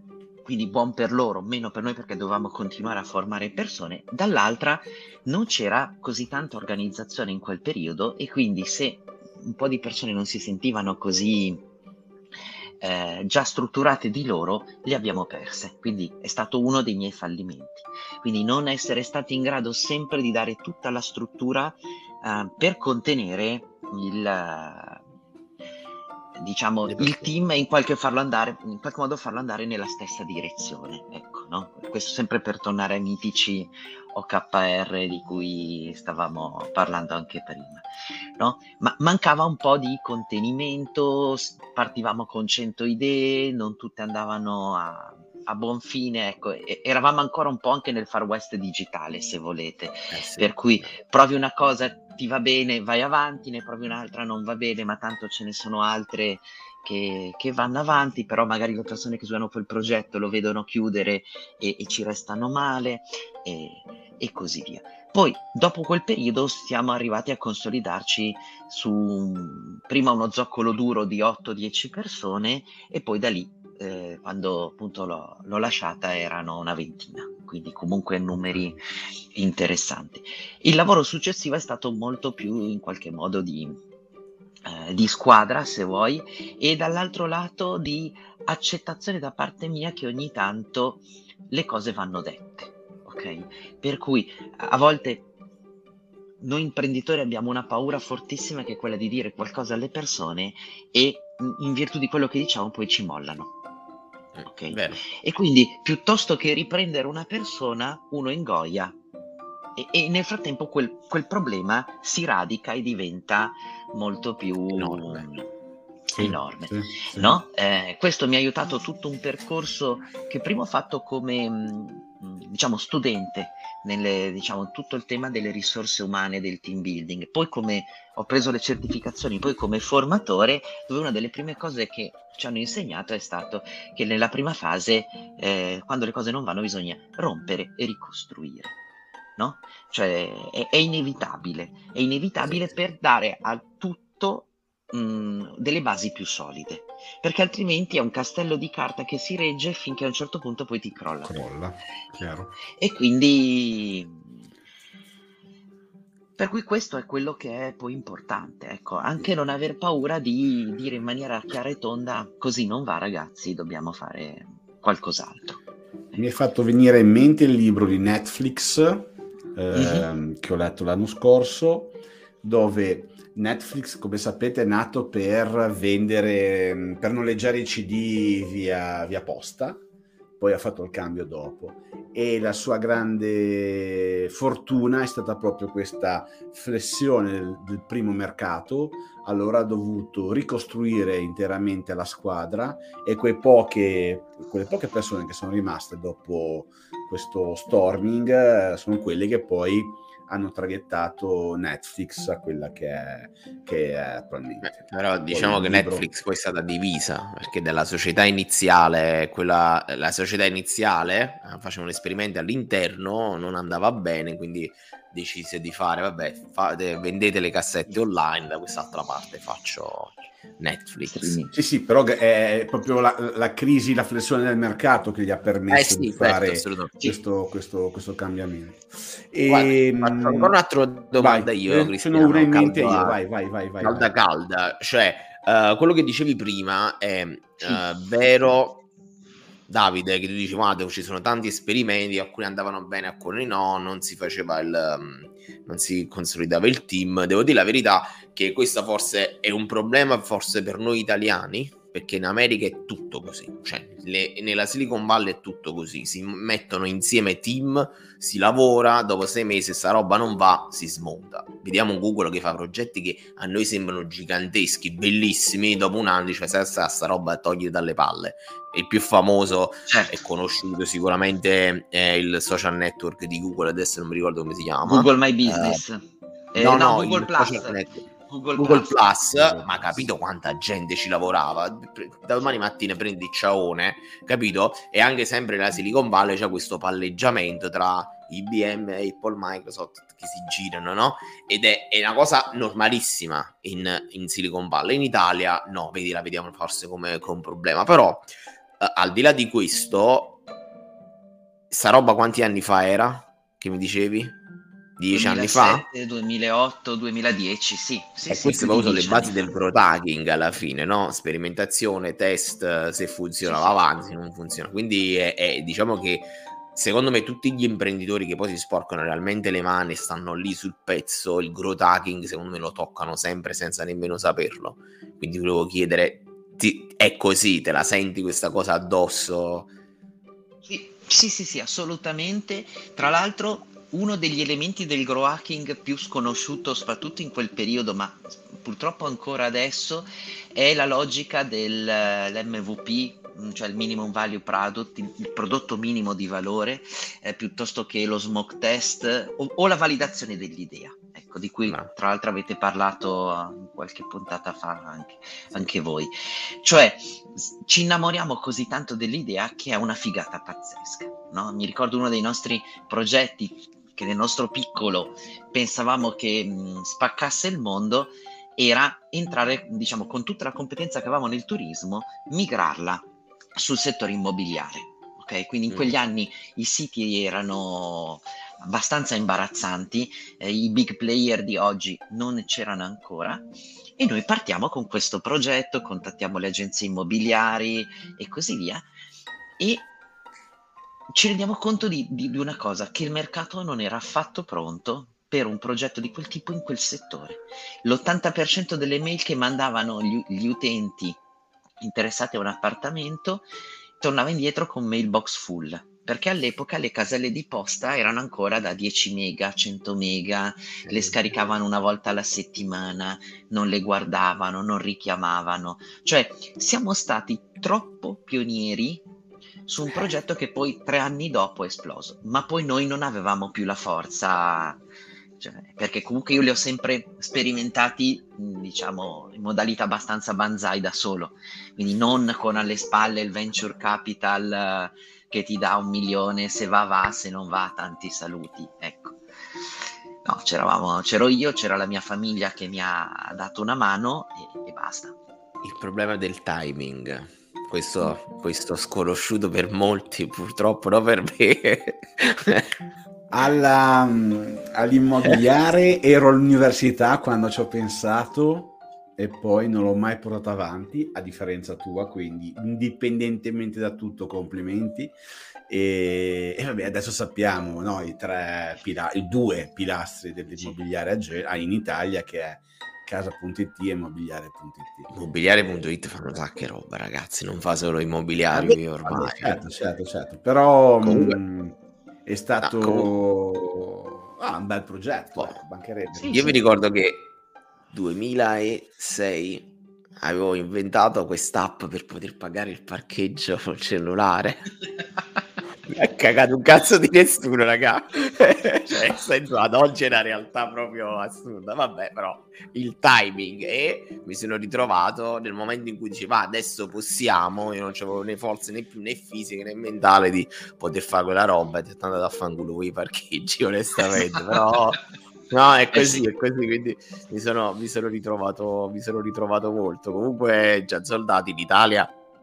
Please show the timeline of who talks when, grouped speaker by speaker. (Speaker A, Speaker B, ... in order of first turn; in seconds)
Speaker A: 0.5-11.6, 12.8-25.0, 26.4-37.9, 38.4-78.8, 79.3-83.8, 84.7-95.3, 96.4-103.5, 104.5-109.0, 109.8-115.5, 116.2-138.8, 139.4-151.4, 152.7-154.4, 156.4-165.6, 169.7-170.1, 221.0-221.6, 269.9-270.1, 274.8-278.9, 305.1-309.5, 313.4-313.9, 330.6-373.1, 373.6-383.4, 384.0-388.9, 389.6-389.9, 391.1-401.2, 401.8-403.4, 404.0-419.0, 419.7-424.8, 425.4-439.6, 440.2-445.1, 486.1-486.5, 514.1-514.6, 515.9-516.3
Speaker B: 26.9-27.3, 50.1-50.9, 104.3-105.0, 114.7-115.3, 204.6-221.4, 225.7-226.9, 229.5-233.2, 233.8-238.8, 239.7-275.8, 276.6-278.0, 278.6-298.3, 298.8-300.4, 301.7-304.4, 305.0-305.9, 308.3-329.7, 375.7-375.9, 410.9-411.1, 445.6-452.7, 475.1-479.6, 481.0-481.4, 482.6-483.1, 486.3-487.3, 487.9-494.7, 495.9-522.1
Speaker C: 116.2-117.4, 151.2-152.6, 166.2-179.8, 180.4-206.1, 221.5-230.6, 231.2-234.1, 279.3-280.1, 453.3-465.1, 465.7-475.1, 478.5-486.8